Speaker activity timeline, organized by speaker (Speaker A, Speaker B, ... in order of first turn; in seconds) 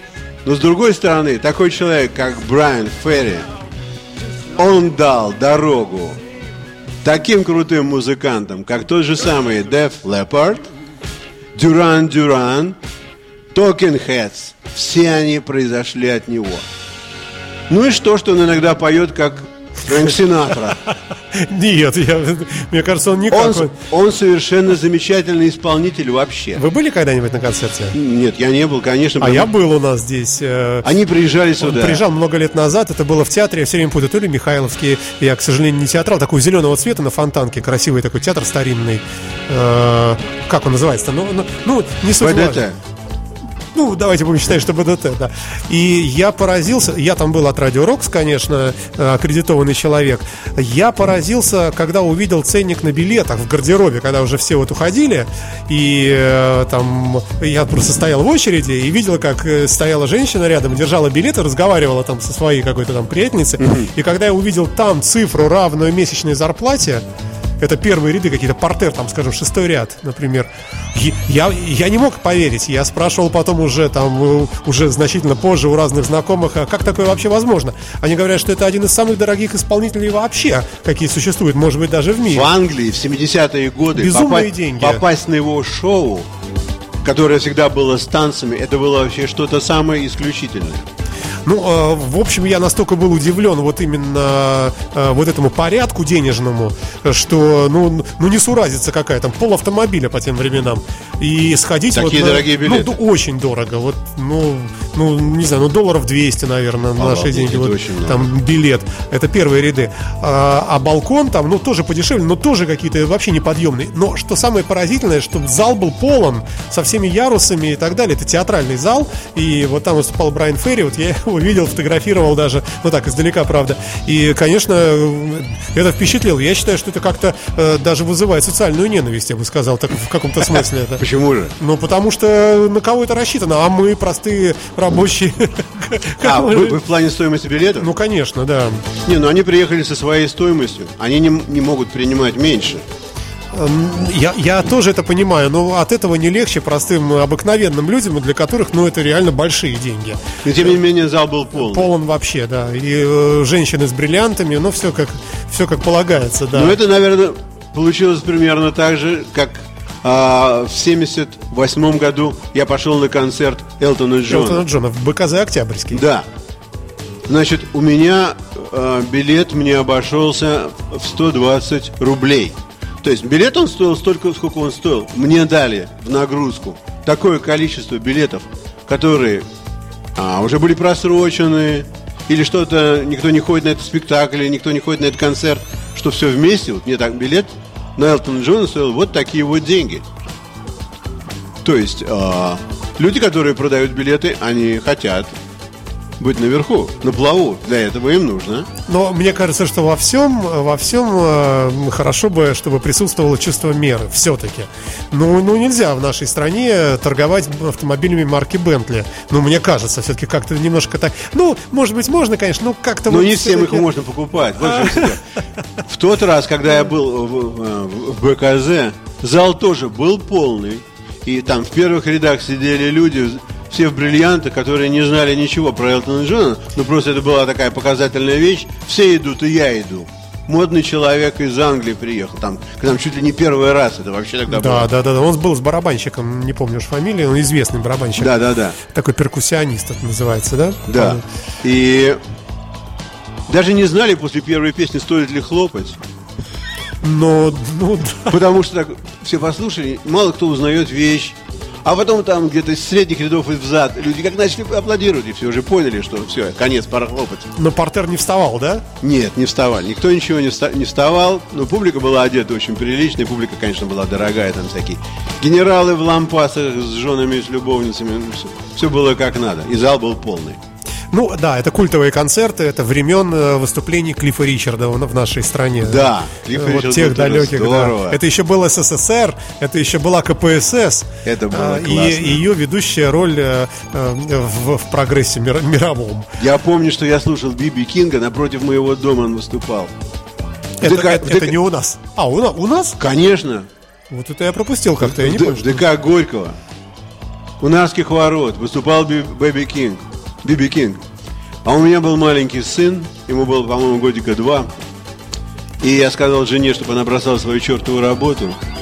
Speaker A: 0.4-3.5, 4.5-6.2, 7.0-10.7, 11.5-12.8, 13.5-16.6, 17.7-20.8, 23.3-26.6, 27.9-29.5, 30.8-32.0, 42.2-42.8, 63.6-63.9, 82.2-86.3, 87.0-90.8, 101.9-103.0, 107.0-108.3, 130.5-131.5, 136.2-137.9, 138.9-142.8, 150.4-151.9, 156.5-164.6, 165.9-166.3, 167.3-179.5, 180.2-190.1, 191.6-195.3, 196.2-198.7, 213.1-215.2, 215.8-234.9, 238.2-238.8, 240.9-242.2, 243.5-246.0, 248.3-257.5, 259.0-270.6, 275.8-278.2, 281.2-282.4, 286.4-289.9, 290.8-291.6, 293.0-293.7, 295.0-296.6, 297.6-301.0, 301.6-304.7, 305.8-308.6
Speaker B: 20.9-23.8, 26.5-28.0, 29.2-30.9, 31.6-42.6, 43.7-67.0, 67.6-82.5, 83.9-85.0, 91.4-131.0, 131.6-136.8, 137.8-138.8, 143.5-150.8, 151.6-156.8, 164.3-166.0, 198.9-213.9, 234.5-241.2, 247.0-248.4, 257.6-258.9, 271.1-286.3, 290.8-293.0, 294.1-295.8